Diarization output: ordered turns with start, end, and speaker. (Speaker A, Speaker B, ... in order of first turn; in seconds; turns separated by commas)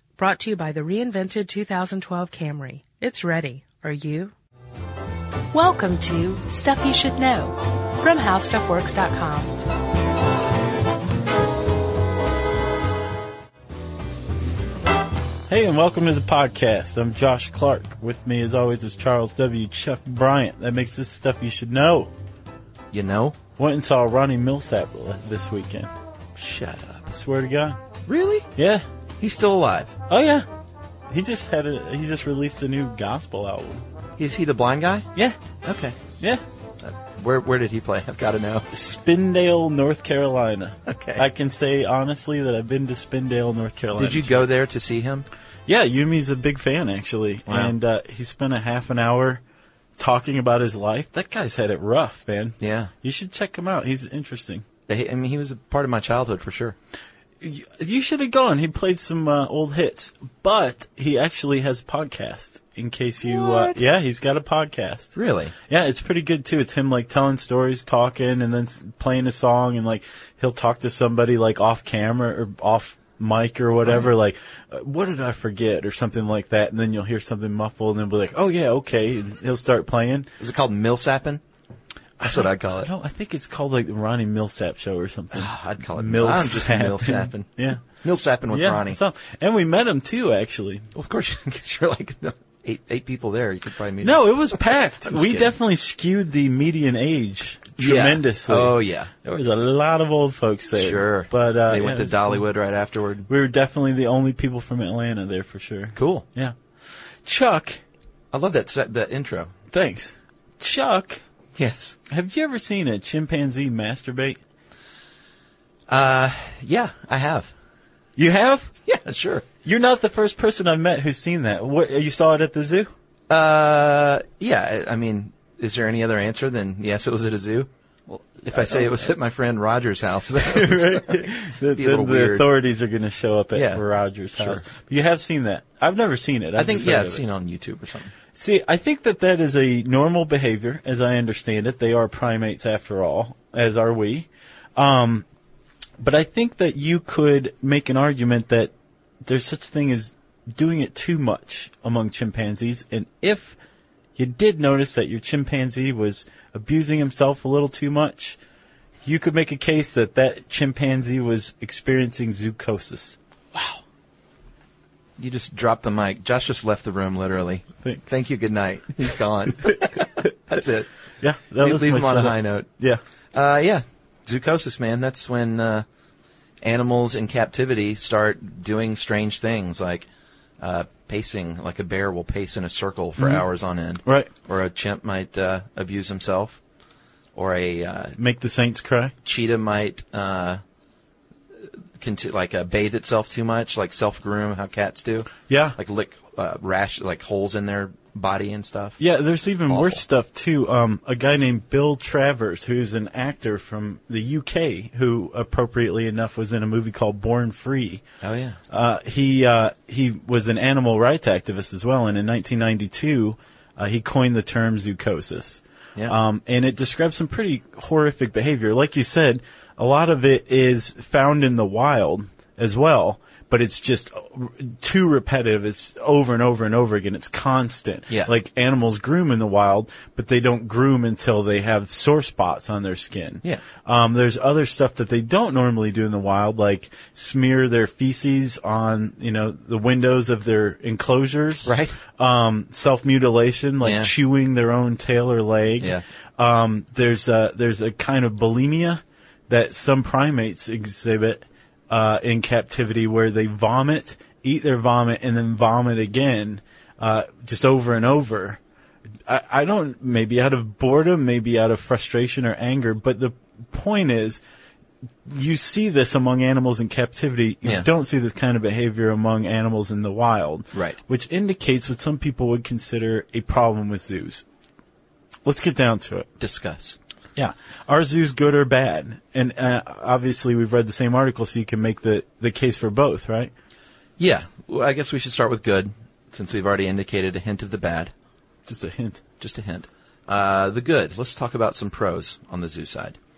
Speaker A: 0.2-4.3, Speaker A: 5.5-9.5, Speaker B: 15.5-22.1, Speaker C: 22.9-23.4, Speaker B: 23.6-25.9, Speaker C: 26.4-27.1, Speaker B: 27.1-27.8, Speaker C: 28.1-28.5, Speaker B: 28.6-28.8, Speaker C: 29.2-29.9, Speaker B: 30.1-30.4, Speaker B: 31.1-33.8, Speaker C: 34.2-35.1, Speaker C: 35.6-36.0, Speaker C: 36.8-38.7, Speaker B: 38.7-44.5, Speaker C: 40.9-41.2, Speaker C: 44.0-45.3, Speaker B: 45.7-49.4, Speaker C: 47.5-47.7, Speaker B: 50.0-54.6, Speaker C: 52.6-52.9, Speaker C: 54.9-56.8, Speaker B: 57.4-65.2, Speaker C: 63.2-63.8, Speaker C: 65.1-65.5, Speaker B: 65.7-80.3, Speaker C: 80.4-81.4, Speaker B: 82.2-87.8, Speaker C: 82.3-82.9, Speaker C: 85.3-89.0, Speaker B: 88.5-90.8, Speaker C: 91.0-95.5, Speaker B: 94.0-102.5, Speaker C: 97.8-99.1, Speaker C: 100.7-103.3, Speaker B: 103.3-106.5, Speaker C: 106.0-106.2, Speaker B: 107.2-107.8, Speaker C: 108.3-109.5, Speaker B: 109.7-111.2, Speaker C: 111.5-112.0, Speaker B: 112.1-114.4, Speaker C: 115.9-117.5, Speaker B: 118.2-118.7, Speaker C: 118.9-119.5, Speaker B: 119.6-122.9, Speaker C: 123.3-127.7, Speaker B: 128.1-129.1, Speaker C: 128.4-132.4, Speaker B: 130.3-137.2, Speaker C: 133.5-133.8, Speaker C: 134.4-134.6, Speaker C: 136.6-138.1, Speaker B: 138.3-145.2, Speaker B: 146.0-148.7, Speaker B: 149.2-153.6, Speaker B: 154.2-158.4, Speaker B: 159.0-163.2, Speaker C: 163.5-163.8, Speaker C: 165.2-170.9, Speaker B: 167.8-168.1, Speaker B: 171.2-173.0, Speaker C: 171.6-172.7, Speaker C: 173.3-175.8, Speaker C: 176.6-180.1, Speaker C: 180.6-186.6, Speaker B: 183.2-183.4, Speaker B: 184.1-184.3, Speaker C: 187.3-188.2, Speaker B: 188.2-189.1, Speaker C: 189.2-190.6, Speaker C: 192.0-199.0, Speaker B: 195.5-195.8, Speaker B: 199.0-208.0, Speaker C: 199.7-200.0, Speaker C: 208.2-208.6, Speaker B: 208.7-258.6, Speaker C: 241.7-242.0, Speaker C: 243.8-244.1, Speaker B: 259.3-264.4, Speaker B: 265.2-274.4, Speaker C: 270.7-271.0, Speaker B: 275.4-276.3, Speaker C: 276.4-277.0, Speaker B: 277.4-283.5, Speaker C: 284.2-288.1, Speaker B: 288.7-289.2, Speaker C: 289.4-293.2